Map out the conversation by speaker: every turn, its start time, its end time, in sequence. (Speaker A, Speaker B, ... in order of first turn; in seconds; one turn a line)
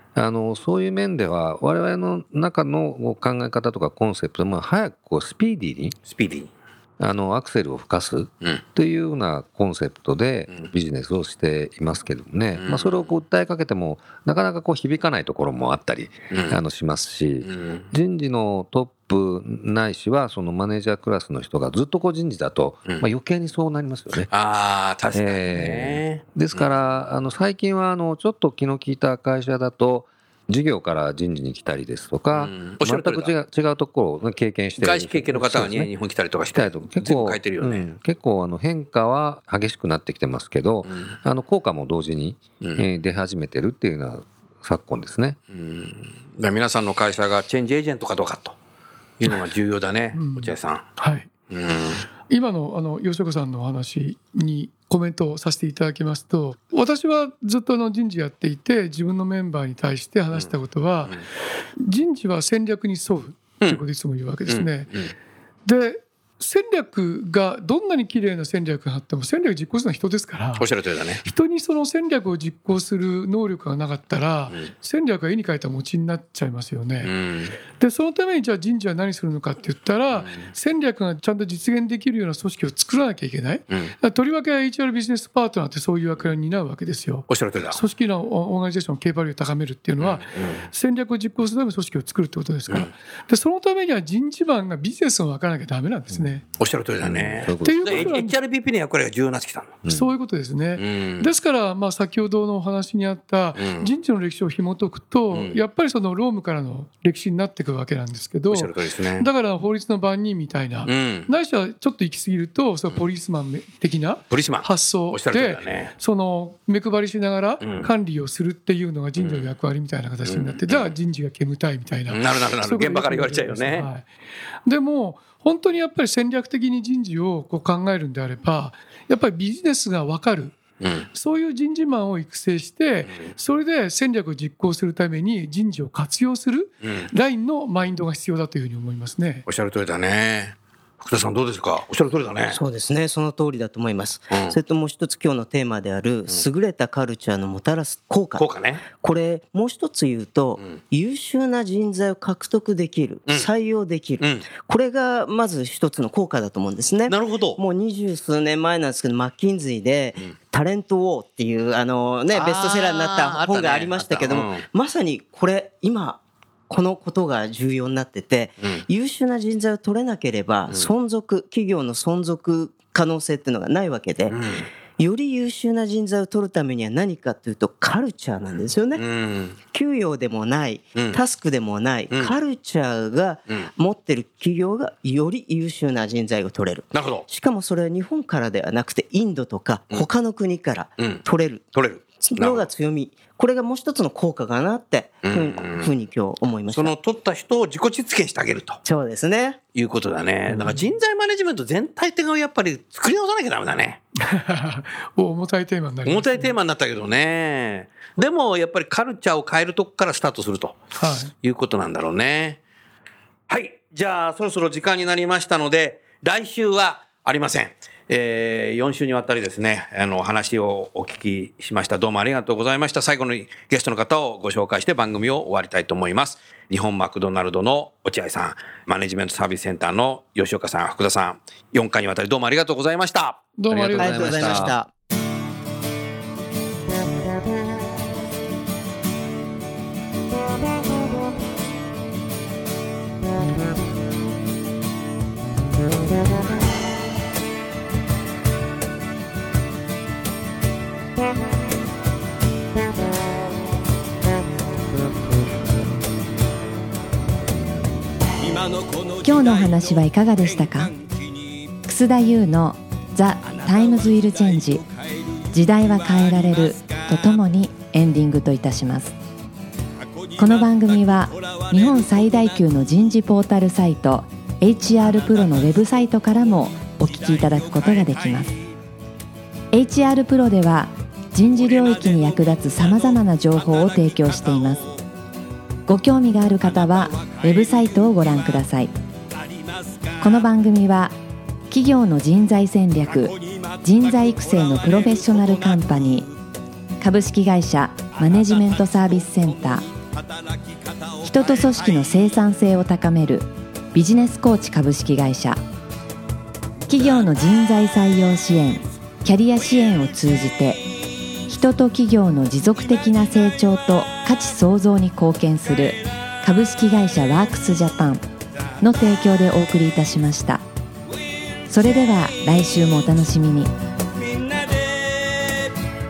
Speaker A: 0.1-6.0
Speaker B: 6.0-6.5
Speaker A: 7.0-24.3
Speaker B: 12.6-13.1
Speaker B: 16.3-16.6
Speaker B: 17.4-17.9
Speaker B: 24.3-26.7
Speaker A: 25.1-35.9
Speaker B: 32.3-33.3
Speaker B: 34.8-37.9
Speaker A: 36.5-45.4
Speaker B: 40.9-41.1
Speaker B: 42.6-42.9
Speaker B: 45.5-48.5
Speaker B: 49.2-50.9
Speaker C: 50.1-51.3
Speaker B: 51.5-52.0
Speaker C: 52.3-61.2
Speaker C: 61.8-64.9
Speaker B: 64.5-65.1
Speaker C: 65.6-70.7
Speaker B: 70.6-71.2
Speaker C: 71.2-77.1
Speaker B: 77.0-77.5
Speaker C: 77.8-96.4
Speaker B: 80.2-80.5
Speaker B: 87.3-87.8
Speaker B: 90.0-90.7
Speaker B: 96.6-99.8
Speaker A: 97.0-98.1
Speaker C: 97.6-98.3
Speaker A: 99.8-100.1
Speaker C: 99.9-124.1
Speaker B: 100.8-101.3
Speaker B: 103.6-103.9
Speaker B: 105.3-105.6
Speaker B: 108.5-109.3
Speaker B: 110.8-111.3
Speaker B: 114.3-115.9
Speaker B: 117.6-117.9
Speaker B: 119.2-119.5
Speaker B: 120.2-120.9
Speaker B: 122.1-123.9
Speaker C: 124.7-130.6
Speaker B: 130.8-131.1
Speaker C: 131.1-139.4
Speaker B: 136.8-137.1
Speaker B: 139.4-142.6
Speaker D: 142.5-174.4
Speaker B: 144.3-144.6
Speaker B: 148.3-148.8
Speaker B: 154.2-154.5
Speaker B: 157.1-157.6
Speaker B: 162.3-164.7
Speaker B: 174.3-174.7
Speaker D: 175.0-179.0
Speaker B: 178.9-179.6
Speaker D: 179.7-196.9
Speaker B: 182.1-182.4
Speaker B: 186.9-187.2
Speaker B: 191.7-192.7
Speaker B: 195.2-195.9
Speaker B: 196.7-198.8
Speaker D: 198.8-199.6
Speaker B: 199.7-204.0
Speaker C: 204.2-206.5
Speaker B: 206.1-210.8
Speaker C: 211.0-211.3
Speaker B: 211.3-212.6
Speaker B: 213.5-233.4
Speaker C: 233.6-234.6
Speaker A: 233.7-234.8
Speaker D: 234.0-234.9
Speaker B: 234.3-234.7
Speaker E: 258.4-261.7
Speaker F: 259.2-260.9
Speaker F: 261.9-264.8
Speaker E: 263.4-267.4
Speaker F: 265.5-269.1
Speaker E: 270.0-272.6
Speaker F: 270.4-278.5
Speaker E: 275.0-278.7
Speaker F: 279.7-284.8
Speaker E: 281.4-285.0
Speaker F: 285.9-288.9
Speaker E: 286.6-288.6
Speaker E: 289.3-290.5
Speaker F: 290.2-291.1
Speaker F: 291.7-296.3
Speaker E: 293.0-296.3
Speaker F: 297.0-299.9
Speaker E: 298.1-302.4
Speaker F: 301.2-305.6
Speaker F: 306.9-310.9
Speaker E: 306.9-307.3
Speaker F: 311.5-318.2
Speaker E: 315.7-315.9
Speaker F: 318.8-320.6
Speaker E: 321.3-322.9
Speaker F: 321.7-323.7
Speaker E: 324.1-325.7